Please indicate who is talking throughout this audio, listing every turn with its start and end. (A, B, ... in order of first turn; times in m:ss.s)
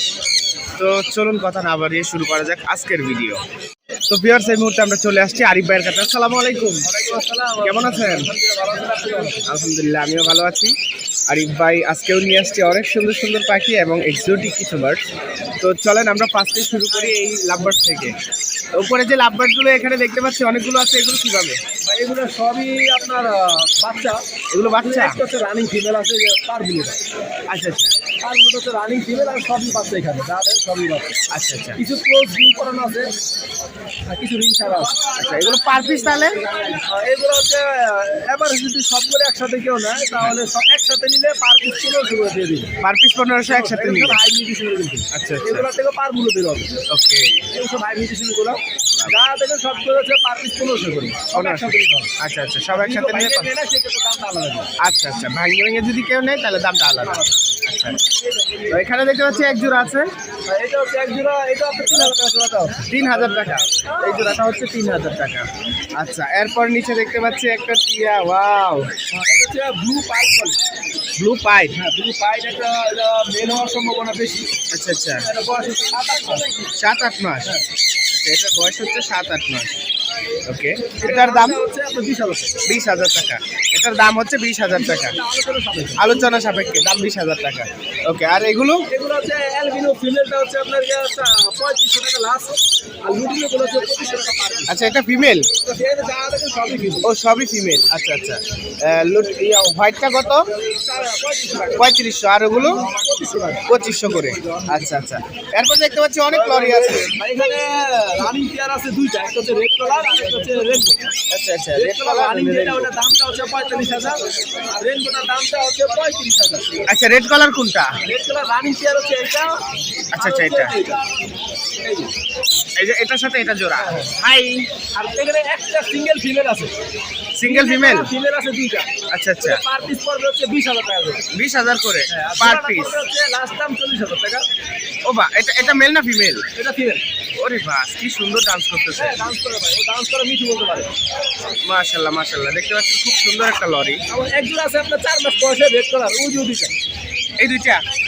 0:00.8-0:03.4 A
0:04.1-0:06.9 A
0:06.8-0:09.4 B
0:07.6-0:08.3 A
0:09.4-0:10.7 A
0:11.3-0:15.0 A
0:15.6-0:18.1 A
0:18.7-0:21.6 A
0:21.8-0:24.2 B
0:24.5-0:25.2 A
0:24.8-0:27.0 B
0:27.5-0:27.9 A
0:28.2-0:31.2 B
0:31.3-0:31.8 A
0:31.8-0:33.1 B
0:34.1-0:35.1 B
0:35.2-0:36.4 A
0:36.5-0:42.7 B
0:42.8-0:44.2 A
0:43.5-0:46.8 B
0:45.1-0:45.7 A
0:46.9-0:47.5 A
0:47.5-0:52.1 B
0:48.9-0:49.2 A
0:51.3-0:53.5 A
0:52.7-0:54.7 B
0:54.8-0:58.0 A
0:58.7-1:00.1 A
1:00.4-1:03.6 B
1:02.8-1:08.9 A
1:09.1-1:10.6 B
1:11.2-1:11.8 A
1:11.8-1:14.5 B
1:14.7-1:15.3 A
1:15.3-1:16.7 B
1:16.7-1:17.6 A
1:18.1-1:19.7 A
1:20.4-1:21.6 A
1:21.0-1:22.6 B
1:22.6-1:25.2 A
1:24.9-1:26.0 B
1:26.0-1:28.8 A
1:28.9-1:34.7 B
1:34.7-1:35.5 A
1:35.6-1:37.1 B
1:37.0-1:40.5 A
1:40.8-1:42.0 B
1:41.8-1:42.8 A
1:42.5-1:43.6 B
1:43.6-1:47.1 A
1:46.3-1:51.0 B
1:51.3-1:52.9 A
1:51.7-1:56.7 B
1:56.9-1:57.9 A
1:58.0-1:59.6 B
2:00.1-2:00.8 A
2:00.1-2:01.0 B
2:01.8-2:02.1 B
2:02.8-2:04.7 A
2:03.8-2:04.1 B
2:04.9-2:06.7 B
2:07.3-2:08.1 A
2:07.4-2:08.9 B
2:09.1-2:09.6 A
2:09.4-2:11.2 B
2:11.3-2:13.0 A
2:12.1-2:14.4 B
2:15.0-2:16.4 A
2:16.6-2:17.0 B
2:17.4-2:19.2 A
2:19.0-2:20.9 B
2:21.6-2:24.0 A
2:24.1-2:26.7 B
2:27.4-2:27.8 A